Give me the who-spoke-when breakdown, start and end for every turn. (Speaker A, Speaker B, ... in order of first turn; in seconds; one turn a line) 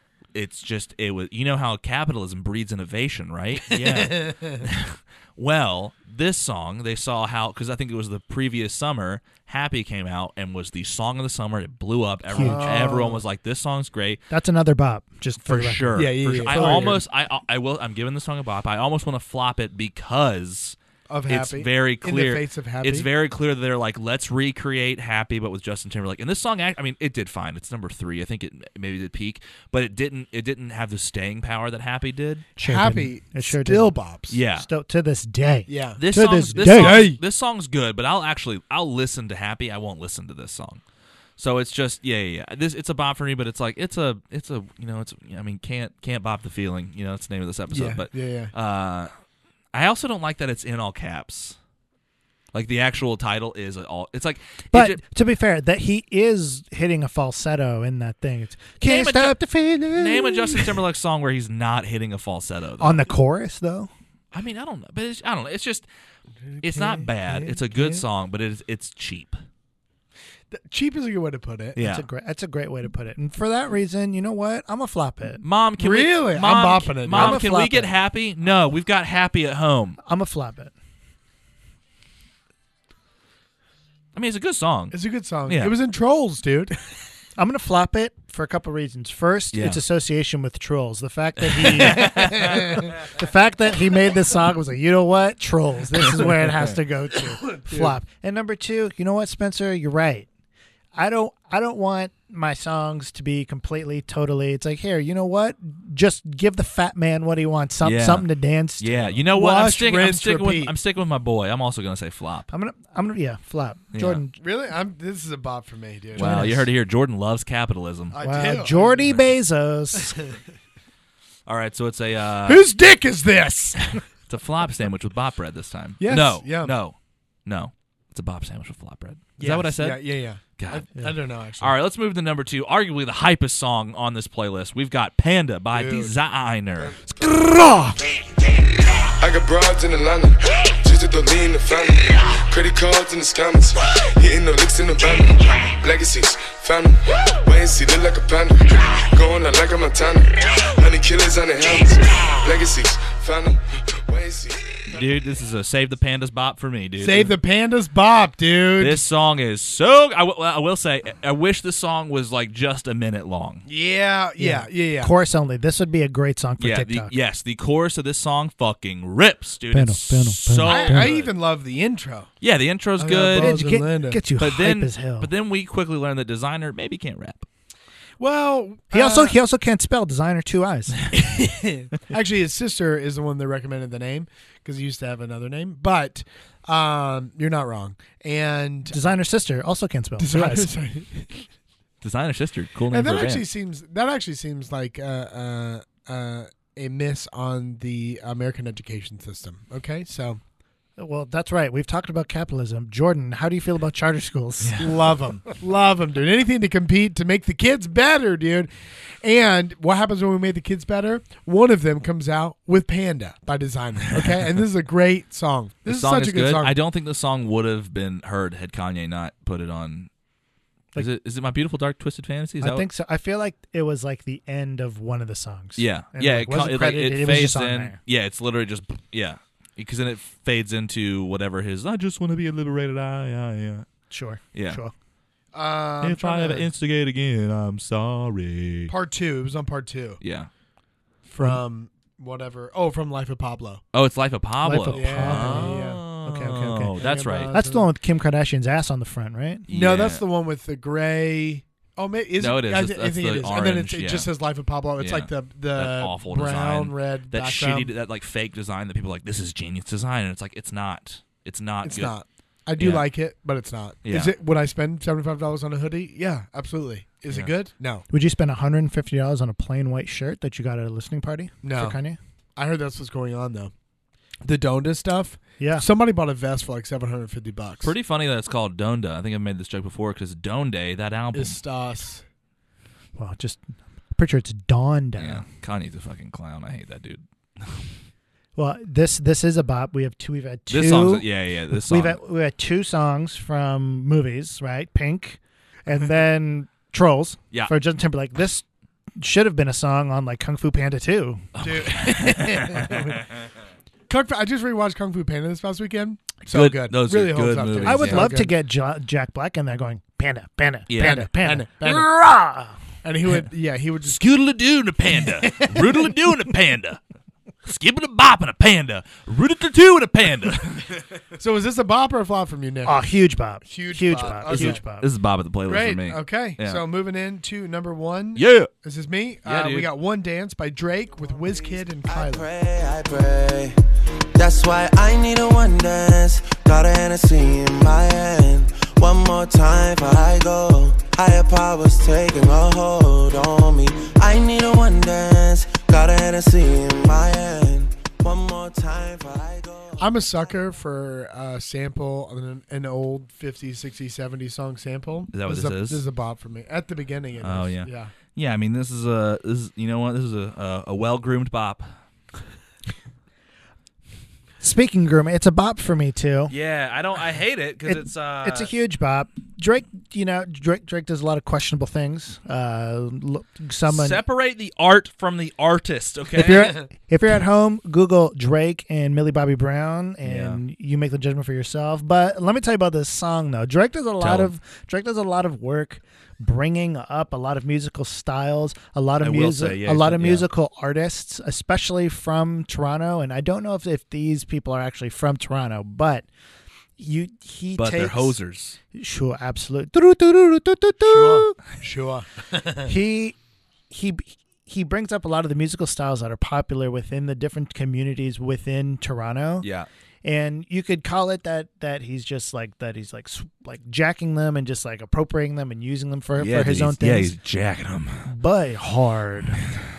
Speaker A: 0.3-14.2
Speaker B: 3.7-4.7
Speaker C: 12.3-12.9
Speaker B: 12.4-13.2
Speaker C: 14.3-17.0
Speaker A: 15.4-20.8
Speaker B: 15.9-17.0
Speaker B: 21.1-23.1
Speaker A: 21.3-32.5
Speaker C: 32.6-34.0
Speaker B: 32.6-34.4
Speaker A: 34.3-34.7
Speaker C: 34.5-37.1
Speaker B: 35.7-36.0
Speaker A: 36.0-40.8
Speaker B: 36.6-37.2
Speaker A: 41.4-49.1
Speaker B: 47.7-48.5
Speaker A: 49.7-51.6
Speaker A: 52.5-55.0
Speaker C: 54.7-60.7
Speaker A: 58.8-59.4
Speaker A: 59.9-63.1
Speaker C: 62.8-63.9
Speaker A: 64.3-65.8
Speaker A: 66.6-69.4
Speaker B: 66.6-68.0
Speaker B: 70.5-71.8
Speaker A: 71.8-72.1
Speaker C: 71.8-75.4
Speaker A: 75.4-80.0
Speaker B: 75.8-77.4
Speaker C: 77.1-77.9
Speaker C: 80.0-80.7
Speaker A: 84.1-85.7
Speaker B: 84.9-86.8
Speaker C: 87.4-100.3
Speaker A: 89.5-89.8
Speaker A: 91.5-92.8
Speaker B: 91.8-93.0
Speaker B: 97.5-97.9
Speaker C: 100.9-109.2
Speaker A: 107.8-108.3
Speaker A: 108.8-112.5
Speaker B: 109.3-110.7
Speaker C: 112.5-114.4
Speaker A: 113.9-114.2
Speaker B: 114.4-116.6
Speaker A: 116.2-118.2
Speaker C: 116.2-116.6
Speaker B: 118.1-119.0
Speaker C: 118.2-120.2
Speaker A: 121.5-122.7
Speaker B: 122.4-124.0
Speaker A: 123.9-130.0
Speaker B: 126.0-126.7
Speaker B: 129.4-131.7
Speaker A: 130.6-130.9
Speaker A: 131.6-137.0
Speaker B: 135.7-136.1
Speaker B: 137.1-138.1
Speaker D: 138.8-154.6
Speaker A: 154.9-157.3
Speaker B: 157.0-159.0
Speaker A: 158.8-163.6
Speaker B: 163.7-165.1
Speaker C: 164.4-167.1
Speaker A: 166.6-171.3
Speaker C: 169.7-171.1
Speaker B: 170.6-172.3
Speaker A: 172.4-173.6
Speaker B: 173.0-174.2
Speaker C: 173.3-175.3
Speaker A: 174.4-177.5
Speaker B: 178.2-179.4
Speaker C: 178.9-181.1
Speaker B: 181.1-189.1
Speaker C: 188.9-190.7
Speaker B: 190.2-191.4
Speaker A: 192.0-193.4
Speaker B: 192.9-200.4
Speaker C: 201.0-204.8
Speaker A: 204.6-204.9
Speaker B: 204.8-208.7
Speaker B: 209.2-216.7
Speaker A: 215.9-220.1
Speaker A: 220.9-222.8
Speaker C: 222.6-228.0
Speaker A: 225.8-233.8
Speaker C: 234.1-234.9
Speaker A: 234.5-234.8
Speaker B: 235.5-236.7
Speaker A: 236.0-238.9
Speaker B: 238.9-240.2
Speaker A: 240.2-240.5
Speaker B: 241.3-243.8
Speaker A: 243.9-247.5
Speaker C: 244.6-249.6
Speaker B: 244.9-246.0
Speaker B: 247.0-247.9
Speaker A: 249.7-250.2
Speaker B: 249.7-257.9
Speaker A: 252.4-254.3
Speaker A: 255.0-262.1
Speaker B: 261.8-268.0
Speaker A: 262.8-263.1
Speaker A: 264.0-264.3
Speaker C: 268.1-272.2
Speaker B: 271.6-272.0
Speaker B: 272.6-273.7
Speaker B: 274.4-277.9
Speaker C: 275.6-275.9
Speaker A: 277.8-281.6
Speaker B: 281.3-282.2
Speaker C: 283.1-283.6
Speaker C: 284.1-285.4
Speaker A: 285.2-287.9
Speaker C: 288.6-298.6
Speaker A: 290.7-292.2
Speaker C: 299.2-301.4
Speaker A: 301.5-303.2
Speaker B: 301.6-303.2
Speaker B: 304.1-308.5
Speaker A: 306.5-308.4
Speaker C: 307.8-312.8
Speaker A: 310.9-311.2
Speaker B: 311.0-312.1
Speaker B: 313.0-314.2
Speaker A: 314.0-317.0
Speaker B: 315.2-316.1
Speaker A: 317.6-321.0
Speaker B: 321.4-323.0
Speaker C: 322.8-325.1
Speaker B: 323.6-324.8
Speaker A: 324.5-326.8
Speaker B: 325.7-332.5
Speaker A: 328.4-328.7
Speaker A: 329.4-329.9
Speaker E: 331.2-333.7
Speaker E: 334.4-350.1
Speaker B: 350.0-358.1
Speaker A: 355.3-356.0
Speaker A: 357.4-361.9
Speaker C: 364.6-366.5
Speaker A: 366.5-368.7
Speaker C: 367.9-374.2
Speaker A: 373.9-376.8
Speaker C: 376.3-396.2
Speaker A: 380.2-380.6
Speaker A: 384.2-384.5
Speaker A: 389.2-390.4
Speaker C: 397.0-398.3
Speaker A: 397.8-398.8
Speaker C: 398.9-401.6
Speaker B: 401.1-402.9
Speaker C: 402.9-403.4
Speaker C: 403.9-409.7
Speaker A: 409.6-409.9
Speaker C: 410.2-417.4
Speaker A: 416.4-418.3
Speaker C: 418.2-419.6